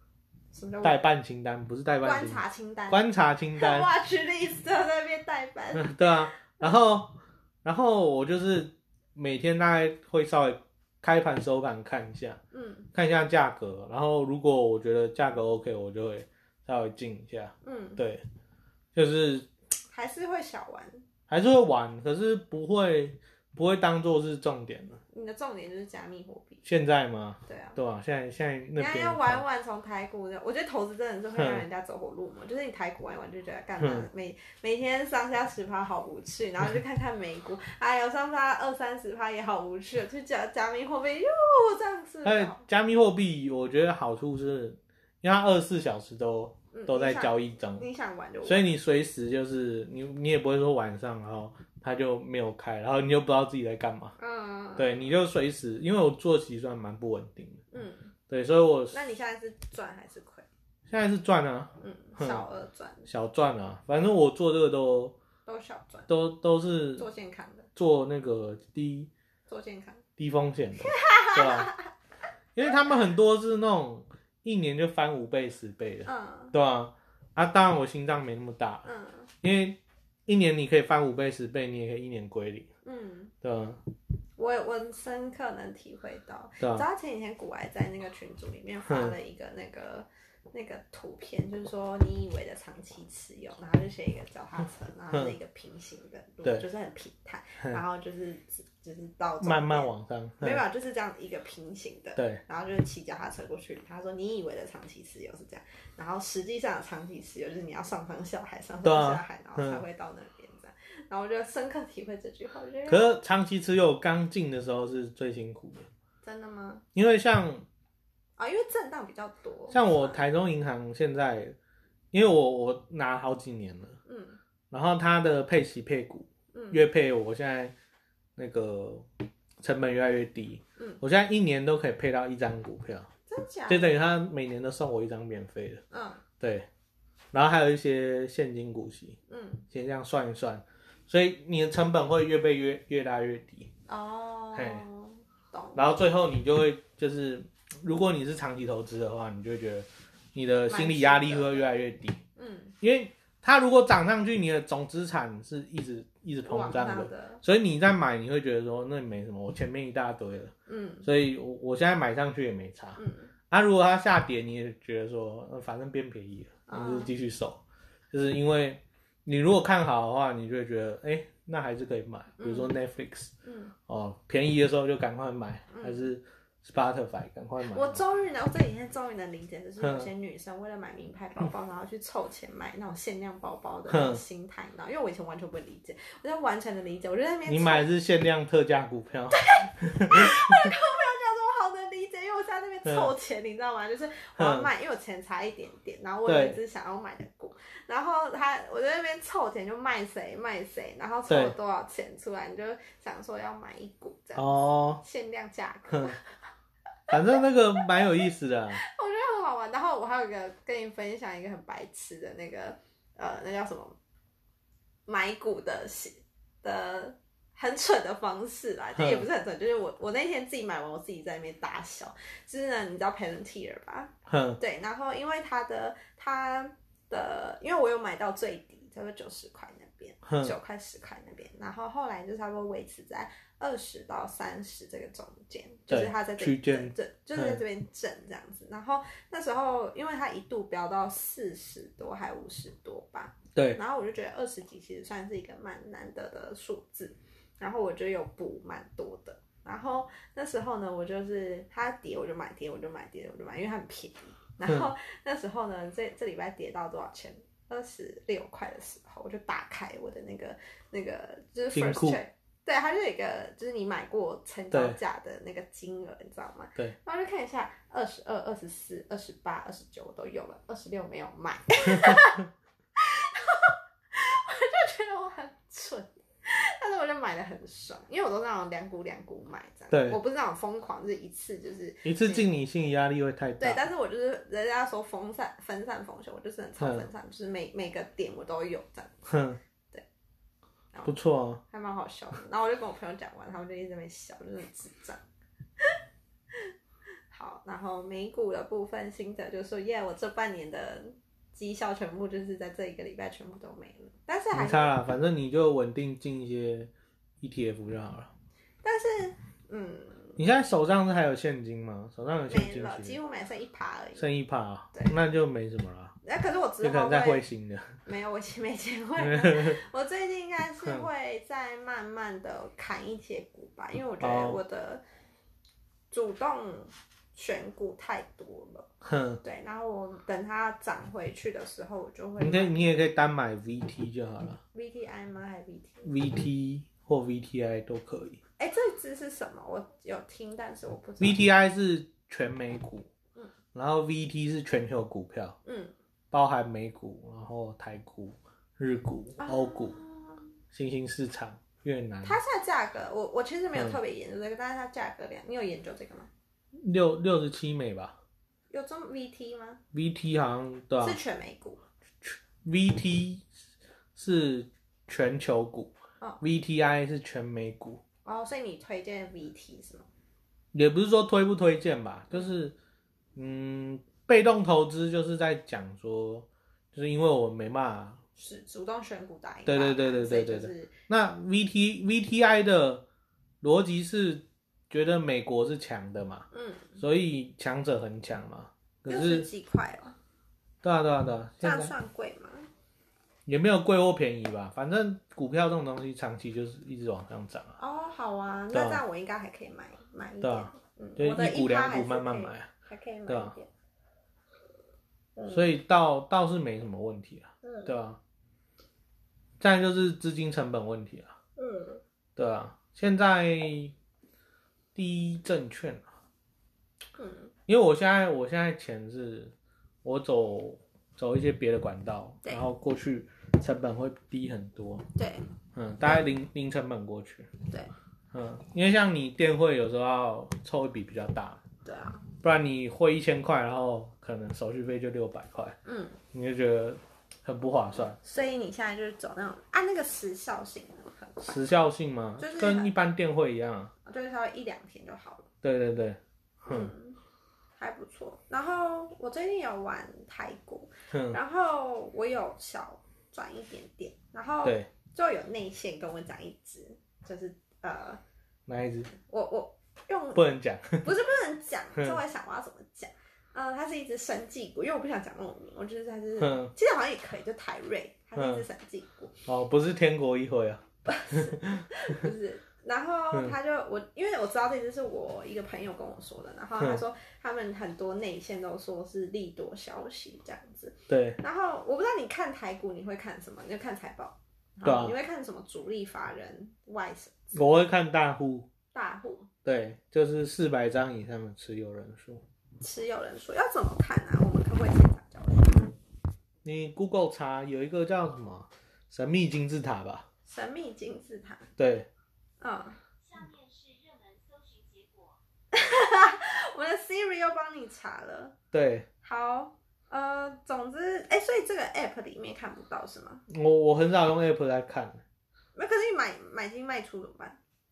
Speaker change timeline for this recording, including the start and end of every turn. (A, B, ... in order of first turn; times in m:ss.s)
0:00.5-0:01.0 A
0:00.8-0:03.9 B
0:02.0-0:03.0 A
0:03.6-0:06.8 A
0:05.7-0:12.4 B
0:12.5-0:12.9 A
0:12.9-0:18.2 B
0:17.6-0:18.0 A
0:18.9-0:19.5 B
0:19.9-0:21.0 A
0:21.3-0:25.0 B
0:25.1-0:26.6 A
0:26.6-0:29.4 B
0:27.5-0:27.8 A
0:28.8-0:42.6 A
0:31.4-0:31.6 B
0:33.8-0:34.1 B
0:42.2-0:47.9 B
0:46.7-0:48.7 A
0:48.4-0:54.2 B
0:54.2-0:54.9 A
0:54.8-0:57.6 B
0:57.7-0:58.1 A
0:58.3-0:59.0 B
0:58.9-1:00.5 A
1:00.9-1:02.4 B
1:01.8-1:03.1 A
1:03.1-1:05.2 B
1:05.5-1:06.1 A
1:06.1-1:07.1 B
1:07.0-1:07.7 A
1:07.8-1:09.1 B
1:09.5-1:10.0 A
1:10.2-1:11.7 B
1:10.8-1:11.9 A
1:12.6-1:18.9 B
1:16.0-1:16.5 A
1:18.8-1:19.3 A
1:19.4-1:22.7 B
1:22.8-1:23.3 A
1:23.4-1:23.8 B
1:24.4-1:53.2 A
1:26.6-1:26.8 B
1:28.9-1:29.2 B
1:39.4-1:40.6 B
1:42.2-1:42.4 B
1:48.8-1:49.8 B
1:52.9-1:55.9 B
1:56.2-1:56.8 A
1:57.0-1:57.7 B
1:58.4-2:00.2 A
1:59.7-2:01.6 B
2:02.1-2:04.0 B
2:04.1-2:04.4 A
2:04.7-2:07.7 B
2:06.5-2:06.8 A
2:08.4-2:09.1 B
2:09.6-2:13.1 B
2:13.3-2:14.0 A
2:13.7-2:15.8 B
2:15.9-2:16.2 A
2:16.4-2:16.7 B
2:17.3-2:19.2 B
2:19.3-2:19.6 A
2:19.7-2:23.7 B
2:23.9-2:25.8 A
2:24.6-2:24.8 B
2:25.8-2:32.2 B
2:30.7-2:31.7 A
2:32.4-2:32.7 A
2:32.8-2:40.5 B
2:36.4-2:37.4 A
2:40.7-2:41.1 A
2:41.0-2:53.3 B
2:43.0-2:43.3 A
2:46.7-2:47.1 A
2:52.4-2:52.8 A
2:53.4-2:53.7 A
2:53.9-2:58.0 B
2:55.7-2:56.1 A
2:57.6-3:07.9 A
2:59.8-3:00.1 B
3:03.9-3:04.2 B
3:07.5-3:10.7 B
3:09.3-3:26.4 A
3:12.8-3:13.1 B
3:14.4-3:14.7 B
3:16.3-3:16.6 B
3:21.3-3:21.6 B
3:24.4-3:25.0 B
3:25.9-3:26.2 B
3:27.1-3:28.8 B
3:27.1-3:28.0 A
3:28.8-3:34.0 A
3:35.1-4:42.5 A
3:39.0-3:39.3 B
3:44.3-3:44.6 B
3:50.2-3:50.6 B
3:55.9-3:57.6 B
4:03.6-4:03.8 B
4:21.7-4:22.2 B
4:24.7-4:25.0 B
4:31.9-4:32.4 B
4:39.9-4:40.2 B
4:42.0-4:43.8 B
4:43.6-4:49.3 A
4:46.8-4:47.1 B
4:49.3-4:49.6 B
4:51.0-4:51.6 B
4:51.7-4:55.2 A
4:57.3-5:05.0 A
5:04.5-5:08.3 B
5:08.8-5:10.4 A
5:10.4-5:13.2 B
5:12.5-5:14.3 A
5:14.2-5:16.2 B
5:16.2-5:17.4 A
5:16.8-5:18.0 B
5:18.0-5:25.0 A
5:19.2-5:19.8 B
5:24.2-5:24.6 B
5:26.1-5:28.9 A
5:29.0-5:29.4 B
5:29.4-5:32.8 A
5:32.4-5:34.6 B
5:34.7-5:36.1 A
5:36.0-5:38.4 B
5:38.6-5:41.4 A
5:41.2-5:43.1 B
5:43.7-5:45.6 B
5:45.6-5:45.9 A
5:46.3-5:50.0 B
5:49.4-5:50.5 A
5:50.7-5:52.4 B
5:52.2-5:56.3 A
5:56.7-5:58.2 B
5:58.7-5:59.8 A
5:59.9-6:01.2 B
6:01.0-6:01.8 A
6:02.2-6:03.5 B
6:04.2-6:08.0 B
6:08.2-6:10.1 A
6:10.7-6:12.8 B
6:13.4-6:18.2 B
6:18.4-6:20.9 A
6:19.7-6:23.0 B
6:23.6-6:26.5 B
6:26.5-6:27.0 A
6:27.0-6:29.5 B
6:29.1-6:30.2 A
6:30.8-6:31.9 B
6:31.6-6:32.7 A
6:33.5-6:37.8 B
6:37.8-6:43.7 A
6:38.7-6:39.0 B
6:40.4-6:42.7 B
6:43.3-6:43.6 B
6:45.4-6:45.7 A
6:45.5-6:48.2 B
6:47.6-6:47.9 A
6:49.6-6:51.4 B
6:51.6-6:52.0 A
6:52.4-6:54.0 B
6:55.0-6:56.1 B
6:57.2-6:57.5 A
6:57.7-7:05.1 B
7:05.2-7:05.5 A
7:05.7-7:07.5 B
7:06.0-7:06.3 A
7:08.3-7:11.6 B
7:11.8-7:12.2 A
7:12.4-7:15.8 B
7:15.8-7:16.2 A
7:16.3-7:18.2 B
7:18.2-7:21.6 A
7:21.4-7:23.9 B
7:22.4-7:22.9 A
7:24.1-7:25.5 A
7:25.6-7:26.9 B
7:26.7-7:27.2 A
7:27.8-7:38.2 A
7:31.1-7:31.4 B
7:38.7-7:39.1 B
7:39.1-7:40.4 A
7:40.4-7:41.1 B
7:41.0-7:49.4 A
7:46.4-7:46.7 B
7:48.4-7:48.6 B
7:49.5-7:52.1 B
7:51.1-8:07.7 A
8:01.1-8:01.4 B
8:04.8-8:05.2 B
8:07.5-8:08.7 B
8:08.9-8:09.5 A
8:09.6-8:12.4 B
8:12.8-8:15.9 A
8:16.6-8:20.3 B
8:20.5-8:21.7 A
8:21.8-8:22.1 B
8:22.6-8:23.0 A
8:23.2-8:25.4 C
8:25.7-8:28.6 A
8:28.7-8:29.1 B
8:29.2-8:33.4 A
8:33.5-8:35.2 B
8:35.8-8:37.6 A